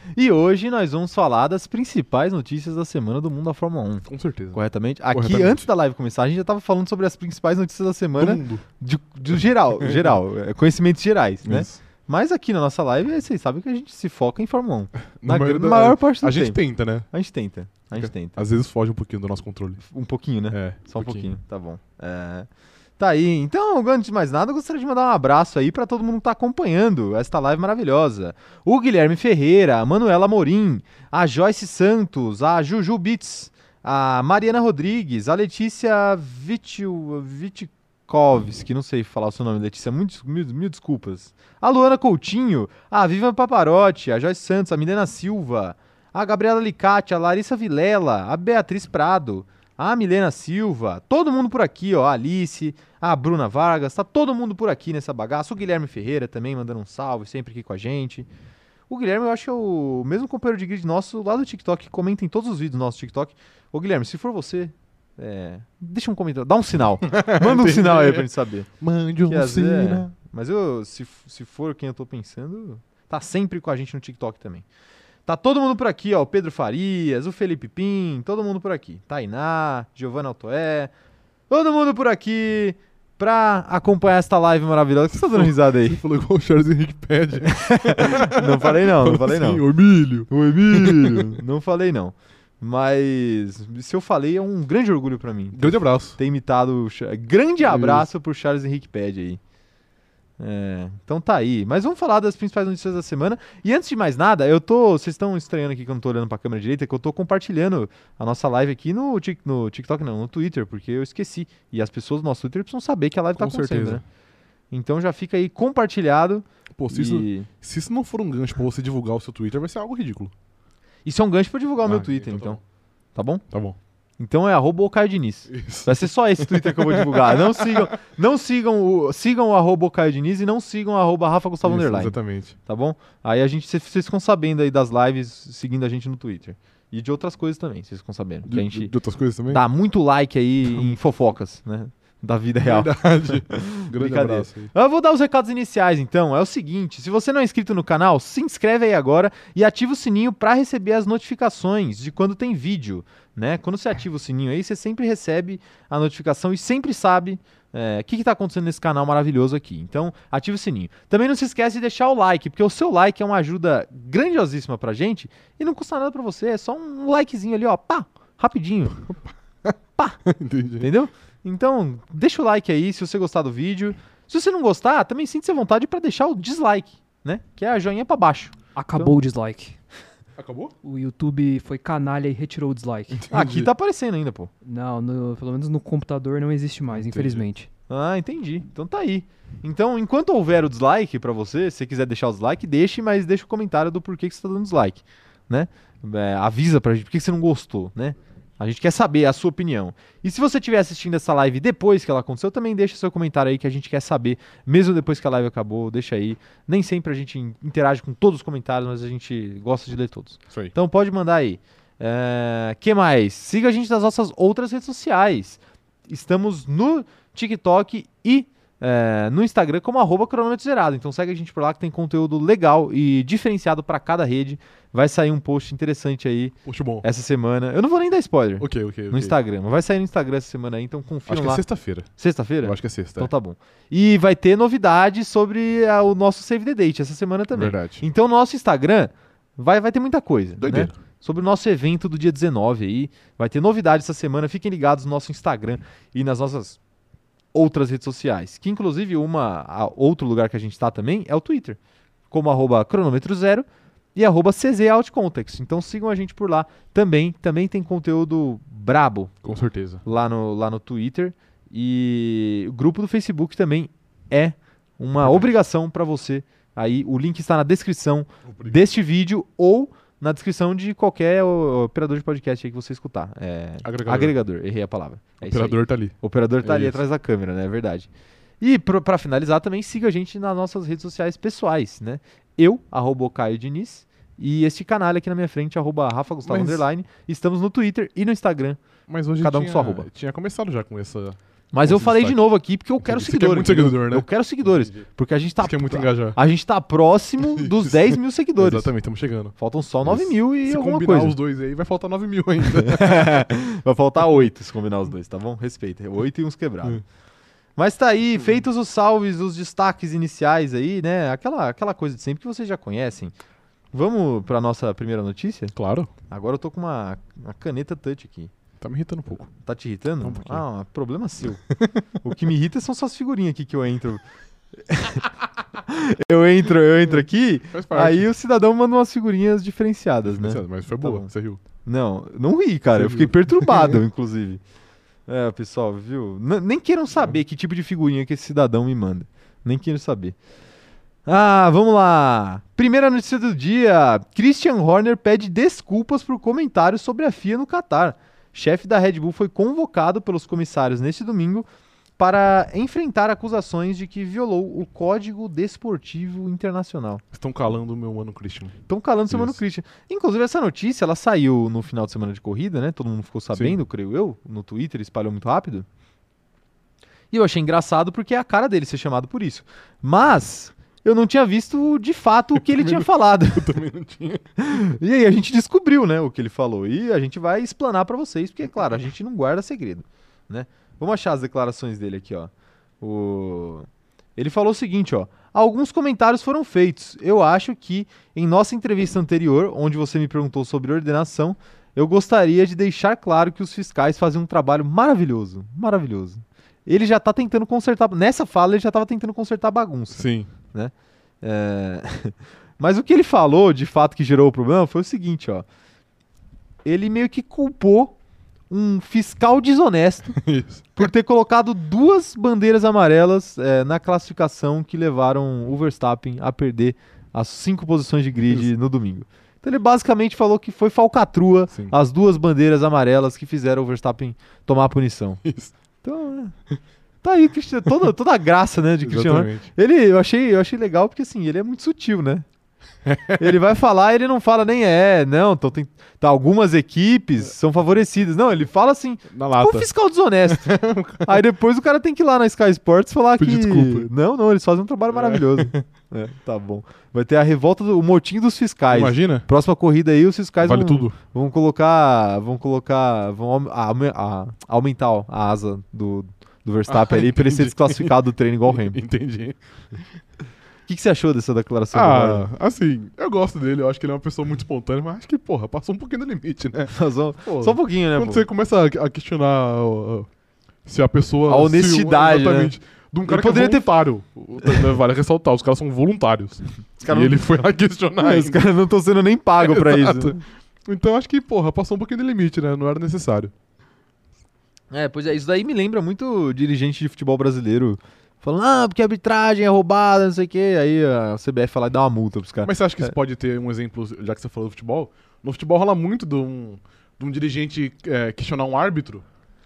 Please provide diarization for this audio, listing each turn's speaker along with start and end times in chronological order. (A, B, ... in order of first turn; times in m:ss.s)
0:00.1-0:18.4 A
0:04.0-0:05.7 B
0:08.2-0:08.6 B
0:09.8-0:10.1 B
0:11.4-0:11.8 B
0:15.2-0:17.1 B
0:17.9-0:19.8 B
0:19.8-0:22.5 A
0:20.5-0:21.3 B
0:23.0-0:58.3 A
0:58.9-1:08.7 A
1:07.0-1:10.1 B
1:09.3-1:14.6 A
1:15.2-1:20.9 A
1:21.5-1:26.0 A
1:25.1-1:31.4 B
1:27.5-1:29.6 A
1:30.3-1:39.4 A
1:35.5-1:36.2 B
1:37.6-1:38.1 B
1:40.4-1:54.0 A
1:53.4-1:54.0 B
1:54.7-1:57.5 A
1:56.8-2:00.3 B
2:01.0-2:02.6 A
2:01.8-2:02.6 B
2:03.1-2:03.4 A
2:03.5-2:03.8 B
2:04.2-2:18.9 A
2:05.5-2:07.9 B
2:11.6-2:12.6 B
2:18.5-2:19.6 B
2:19.5-2:49.0 A
2:20.6-2:21.2 B
2:22.6-2:24.7 B
2:50.2-2:50.9 B
2:50.8-2:59.2 A
2:58.7-2:59.8 C
3:00.4-3:00.7 B
3:00.8-3:03.2 C
3:03.1-3:03.7 B
3:03.3-3:04.5 A
3:04.6-3:07.7 C
3:06.9-3:07.4 B
3:07.9-4:06.8 A
3:46.6-3:47.0 B
3:48.6-3:49.3 B
3:51.3-3:52.1 B
3:52.6-3:53.3 B
3:57.5-3:58.0 B
4:00.6-4:00.9 B
4:07.5-4:11.8 A
4:12.3-4:19.3 A
4:19.4-4:20.0 B
4:20.0-4:38.1 A
4:25.2-4:25.5 B
4:28.4-4:28.8 B
4:33.8-4:34.3 B
4:35.4-4:37.0 B
4:38.6-4:48.8 A
4:46.4-4:46.8 B
4:49.1-4:52.4 B
4:49.4-4:50.1 A
4:51.7-4:58.9 A
4:53.0-4:54.3 B
4:55.6-4:56.4 B
4:57.4-4:59.5 B
4:59.6-5:01.4 A
5:00.0-5:03.5 B
5:02.7-5:07.0 A
5:07.8-5:13.3 A
5:13.9-5:15.7 A
5:15.7-5:16.1 B
5:16.3-5:18.5 A
5:18.8-5:19.5 B
5:19.6-5:21.6 A
5:20.2-5:20.6 B
5:21.7-5:22.0 B
5:22.2-5:24.2 A
5:24.9-5:25.3 A
5:25.8-5:31.3 A
5:27.7-5:28.3 B
5:30.2-5:31.6 B
5:31.8-5:34.6 A
5:32.9-5:34.0 B
5:35.3-5:40.4 A
5:41.2-5:51.7 A
5:52.2-5:57.2 A
5:57.3-5:58.8 B
5:58.9-6:05.8 A
5:59.3-5:59.6 B
6:07.3-6:13.8 A
6:12.6-6:14.5 B
6:14.6-6:45.6 A
6:40.1-6:40.5 B
6:46.8-6:48.1 A
6:48.7-6:50.4 A
6:50.3-6:51.0 B
6:50.9-7:05.4 A
7:05.4-7:05.7 B
7:06.0-7:06.6 A
7:07.2-7:12.4 A
7:09.0-7:09.7 B
7:13.0-7:13.6 B
7:13.4-7:39.0 A
7:19.3-7:19.9 B
7:20.5-7:21.4 B
7:23.4-7:24.1 B
7:25.1-7:25.8 B
7:28.9-7:29.5 B
7:30.6-7:31.2 B
7:36.9-7:40.0 B
7:40.9-7:42.4 A
7:41.9-7:46.9 B
7:46.9-7:48.4 A
7:47.4-7:50.3 B
7:50.8-7:58.6 B
7:51.5-7:52.7 A
7:53.2-7:53.9 A
7:57.0-7:57.4 A
7:58.2-8:00.4 A
7:59.6-8:03.5 B
8:04.9-8:12.7 A
8:12.6-8:19.2 B